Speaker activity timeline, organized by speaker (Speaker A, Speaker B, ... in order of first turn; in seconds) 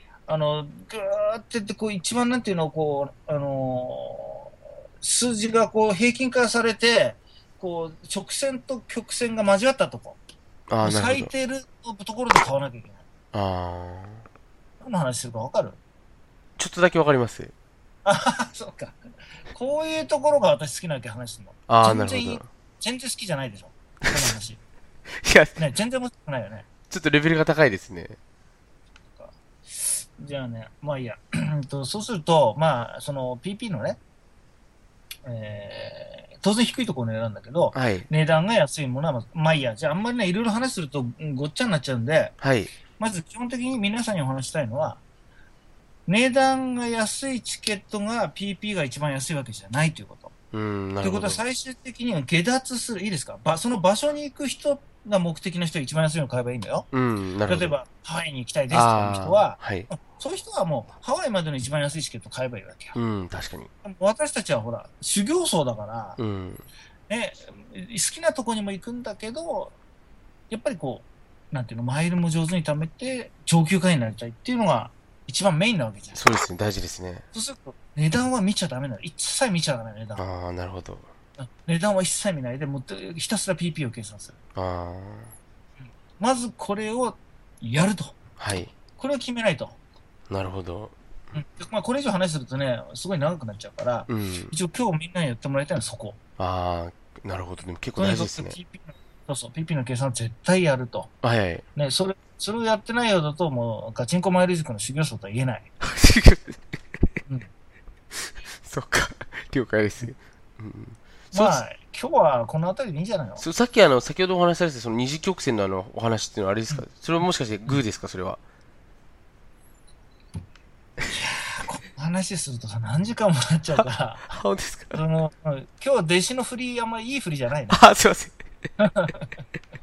Speaker A: 0.3-10.2, 10.8-13.0, 14.8-15.8, 18.0-19.0, 19.5-24.6, 25.6-26.6, 29.1-34.0, 35.2-42.3, 43.0-45.0, 46.1-50.3, 51.0-56.9, 57.5-63.0, 63.8-66.2, 67.1-69.8, 70.5-76.2, 77.3-80.2, 81.4-84.3, 86.2-88.2, 89.0-89.8, 91.3-96.2, 98.0-101.1, 101.8-105.7, 111.3-113.4, 121.1-124.3, 124.9-127.8, 128.8-129.3
Speaker B: 10.7-11.3, 13.3-14.2, 16.6-17.5, 21.7-22.5, 24.0-24.3, 25.2-25.6, 26.9-28.1, 37.7-38.1, 42.4-42.7, 50.5-51.4, 56.9-57.8, 58.7-59.9, 62.9-63.7, 66.2-66.6, 76.1-77.2, 80.2-81.0, 84.5-85.3, 88.4-88.7, 90.3-90.9, 94.1-94.5, 96.4-98.6, 101.2-101.6, 105.8-106.6, 108.6-111.6, 113.4-118.4, 123.8-125.0, 127.7-128.4